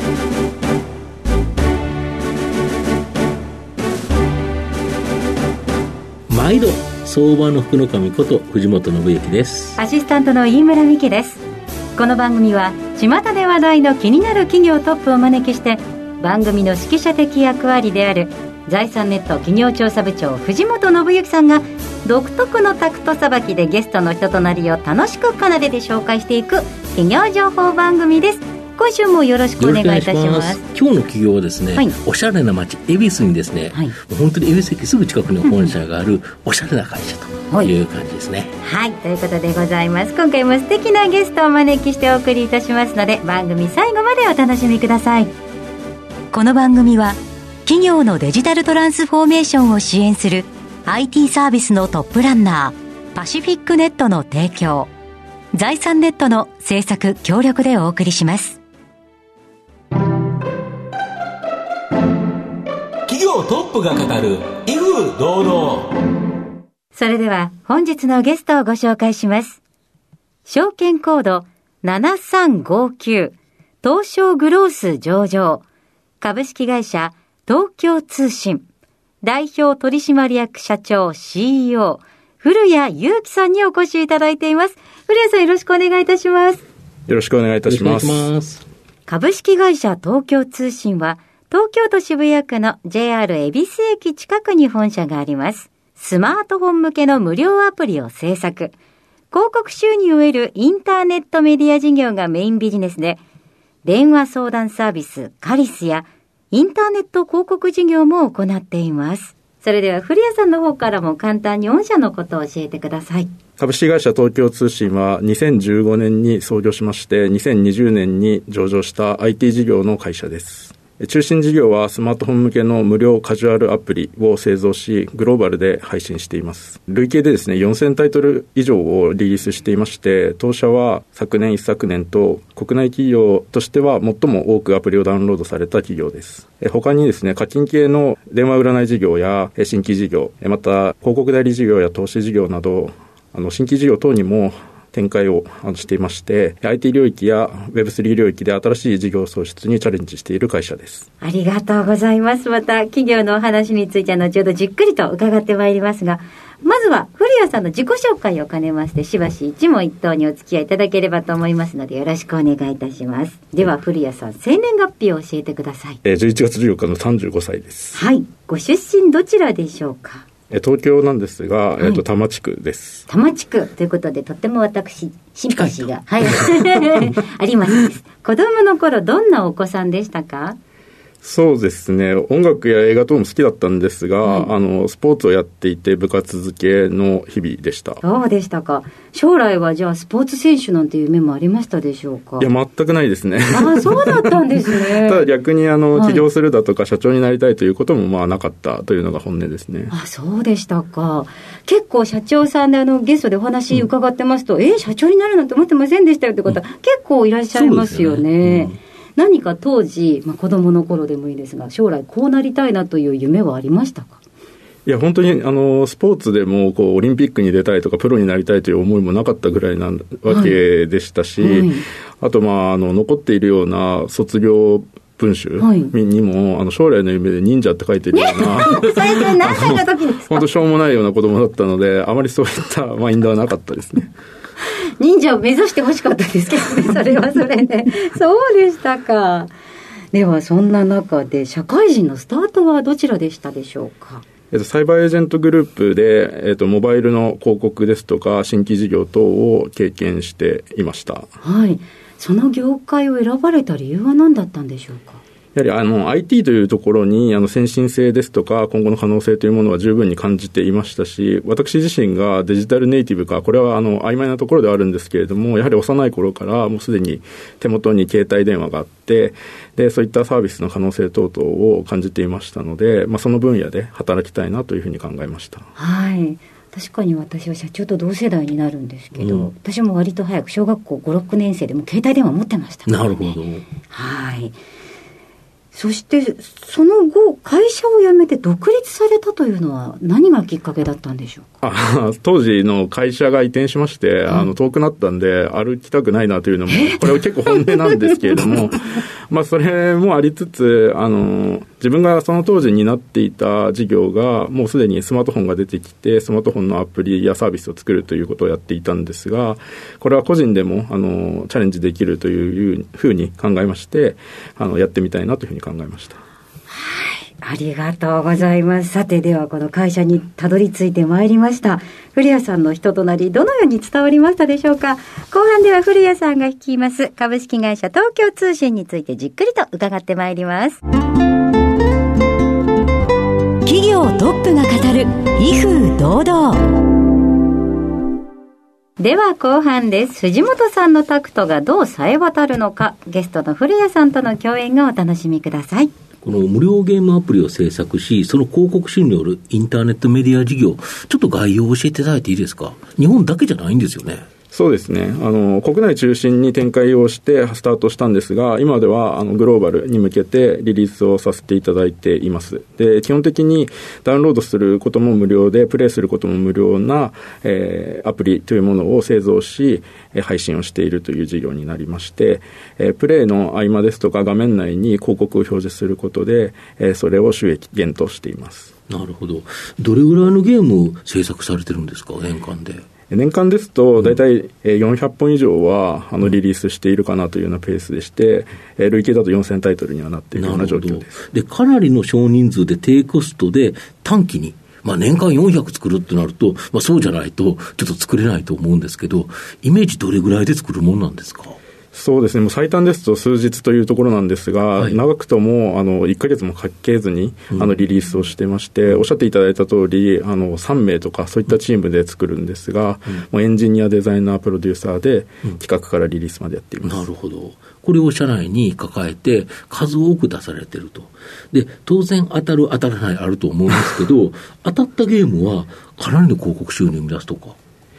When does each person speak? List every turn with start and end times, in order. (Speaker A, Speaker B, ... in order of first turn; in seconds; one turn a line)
Speaker A: 6.3-9.8
Speaker B: 9.8-11.4
Speaker B: 11.9-30.6
Speaker A: 29.6-38.5
Speaker B: 38.6-45.3
Speaker B: 46.3-54.9
Speaker B: 55.5-58.6
Speaker C: 63.1-65.9
Speaker B: 66.9-69.6
Speaker B: 70.4-75.6
Speaker B: 76.2-78.6
Speaker B: 79.2-86.6
Speaker D: 87.1-88.3
Speaker A: 87.7-88.6
Speaker B: 89.0-98.7
Speaker B: 99.3-103.2
Speaker B: 103.8-113.3
Speaker D: 113.6-151.1
Speaker B: 151.2-166.0
Speaker D: 166.0-168.0
Speaker B: 167.9-170.2
Speaker D: 170.5-173.1
Speaker B: 173.1-180.6
Speaker D: 181.2-188.0
Speaker B: 184.2-184.5
Speaker B: 188.0-192.5
Speaker D: 192.4-199.9
Speaker B: 193.5-195.3
Speaker B: 195.9-196.2
Speaker B: 199.9-214.2
Speaker A: 207.5-208.8
Speaker D: 214.8-234.1
Speaker B: 220.3-220.6
Speaker B: 221.4-221.8
Speaker B: 225.6-225.9
Speaker B: 228.1-230.4
Speaker B: 235.0-239.5
Speaker B: 240.1-244.2
Speaker D: 244.5-251.3
Speaker B: 251.4-255.2
Speaker D: 255.5-275.7
Speaker B: 275.8-283.4
Speaker A: 279.2-279.5
Speaker A: 282.9-283.7
Speaker B: 283.9-284.6
Speaker B: 285.7-291.5
Speaker D: 291.6-316.2
Speaker B: 296.7-298.2
Speaker B: 316.7-330.8
Speaker B: 333.6-336.6
Speaker B: 339.0-345.9
Speaker A: 346.2-354.2
Speaker D: 354.5-378.7
Speaker A: 378.9-382.8
Speaker D: 383.1-391.2
Speaker A: 390.3-401.6
Speaker D: 401.9-417.1
Speaker A: 416.9-427.6